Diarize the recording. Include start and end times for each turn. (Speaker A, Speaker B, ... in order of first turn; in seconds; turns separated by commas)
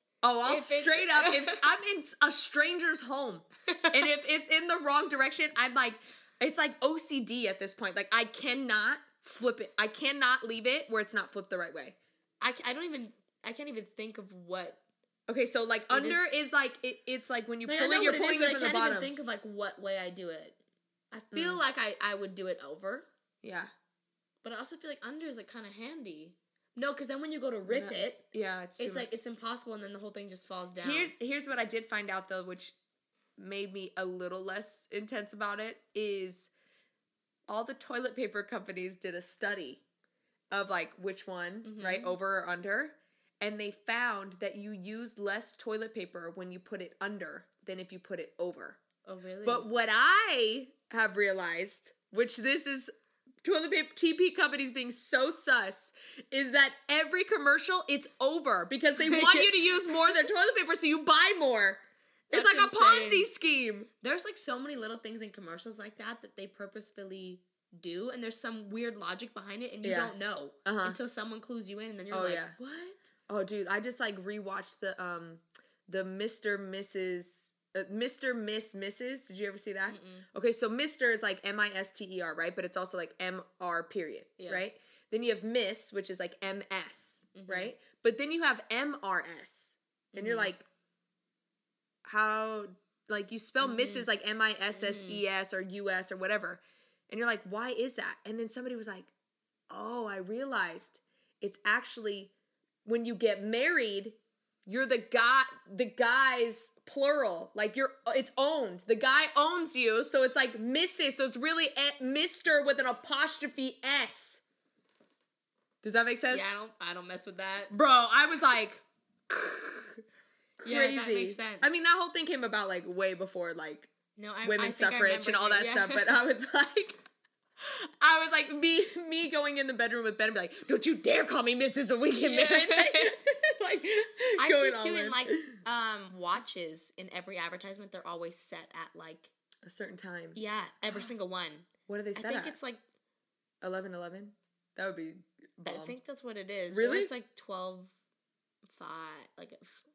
Speaker A: 0.2-12.0, Speaker B: 0.4-1.6, Speaker B: 12.4-14.8, Speaker A: 15.3-19.1, Speaker B: 15.9-16.2, Speaker B: 17.7-20.6, Speaker B: 21.1-23.1, Speaker A: 21.3-21.6, Speaker A: 23.4-23.7, Speaker B: 24.4-28.2, Speaker A: 27.7-29.1, Speaker B: 28.8-31.1, Speaker A: 30.8-32.8, Speaker A: 33.4-36.5, Speaker A: 37.5-39.8, Speaker A: 40.5-48.8, Speaker B: 41.6-42.2, Speaker B: 49.0-49.7, Speaker A: 49.4-52.9, Speaker A: 53.4-63.9, Speaker B: 59.0-59.9, Speaker B: 62.3-63.3, Speaker B: 64.0-73.0, Speaker A: 69.8-70.1, Speaker A: 70.7-71.0, Speaker A: 72.1-72.6, Speaker A: 73.3-90.7, Speaker B: 79.9-80.3, Speaker B: 84.4-84.6, Speaker B: 87.3-87.7, Speaker B: 90.1-90.5, Speaker A: 92.0-99.1, Speaker B: 93.6-94.1, Speaker B: 94.7-95.2, Speaker A: 99.7-102.3, Speaker A: 102.8-114.4, Speaker A: 115.8-116.5, Speaker B: 116.3-117.7, Speaker A: 117.7-120.0, Speaker A: 120.6-123.9, Speaker B: 120.7-121.9, Speaker B: 124.2-126.1, Speaker A: 124.4-127.0, Speaker A: 127.6-135.6, Speaker B: 132.1-133.2, Speaker B: 134.4-139.3, Speaker A: 139.7-140.4, Speaker B: 140.3-142.8, Speaker A: 141.9-142.6, Speaker A: 143.6-146.0, Speaker B: 145.7-147.9, Speaker A: 146.7-147.1, Speaker B: 148.7-149.8